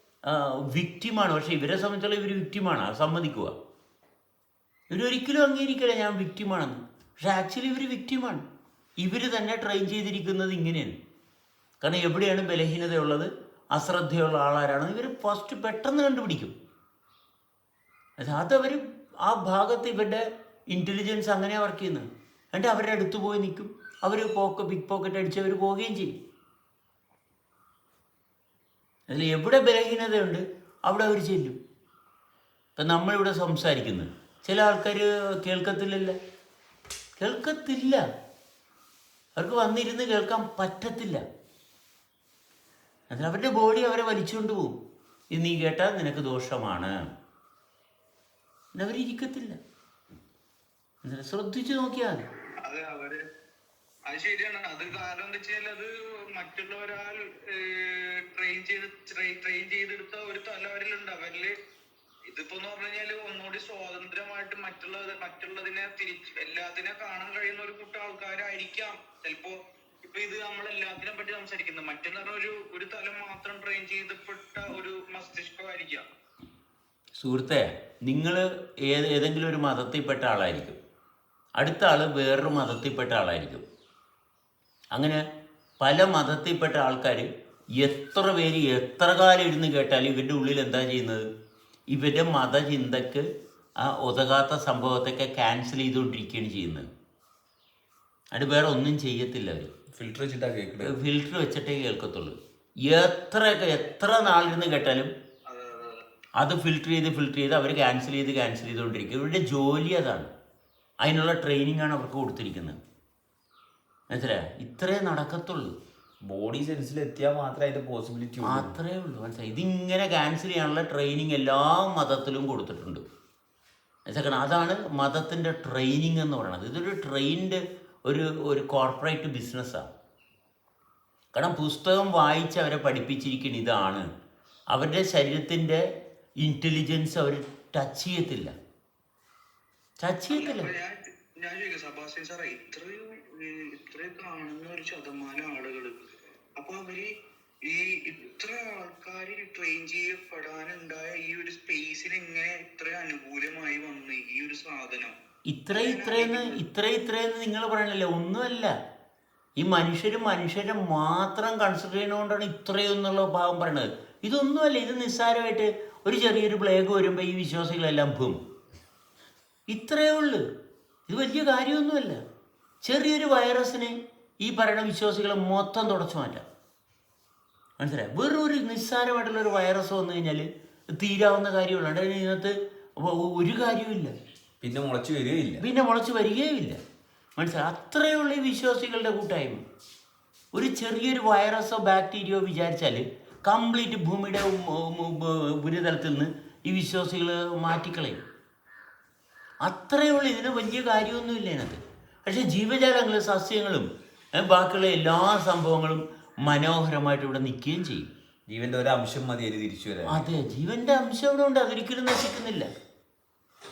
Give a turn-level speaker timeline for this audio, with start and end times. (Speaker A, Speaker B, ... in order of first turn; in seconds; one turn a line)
Speaker A: 0.2-3.5
Speaker A: 4.9-8.4
Speaker A: 9.0-10.9
Speaker A: 11.8-16.5
Speaker A: 18.2-26.2
Speaker A: 29.1-31.6
Speaker A: 32.8-36.1
Speaker A: 37.2-38.0
Speaker A: 39.4-41.2
Speaker A: 43.1-44.8
Speaker A: 45.3-46.9
Speaker A: 48.8-49.6
Speaker A: 51.0-52.2
Speaker B: 52.6-53.2
Speaker B: 54.1-61.5
Speaker B: 62.3-76.0
Speaker A: 77.2-80.8
Speaker A: 81.6-83.6
Speaker A: 84.9-85.2
Speaker A: 85.8-91.2
Speaker A: 91.9-93.2
Speaker A: 93.8-96.9
Speaker A: 98.3-99.7
Speaker C: 99.9-100.9
Speaker A: 100.8-105.1
Speaker B: 104.3-104.9
Speaker B: 105.5-106.0
Speaker A: 106.4-110.3
Speaker A: 111.0-112.8
Speaker A: 114.1-115.7
Speaker C: 116.2-118.8
Speaker A: 118.4-123.0
Speaker A: 124.1-129.9
Speaker A: 131.3-134.1
Speaker A: 134.7-135.8
Speaker A: 136.4-138.5
Speaker A: 140.0-140.7
Speaker B: 140.3-147.1
Speaker B: 147.7-155.1
Speaker A: 155.5-158.7
Speaker B: 155.7-156.6
Speaker A: 159.6-168.4
Speaker A: 169.7-170.4
Speaker A: 171.1-172.2
Speaker A: 172.8-176.4
Speaker A: 177.8-184.1
Speaker C: 184.6-185.6
Speaker A: 185.6-186.8
Speaker A: 187.4-189.6
Speaker A: 190.5-198.2
Speaker A: 199.6-208.1
Speaker C: 208.5-210.3
Speaker A: 210.1-212.7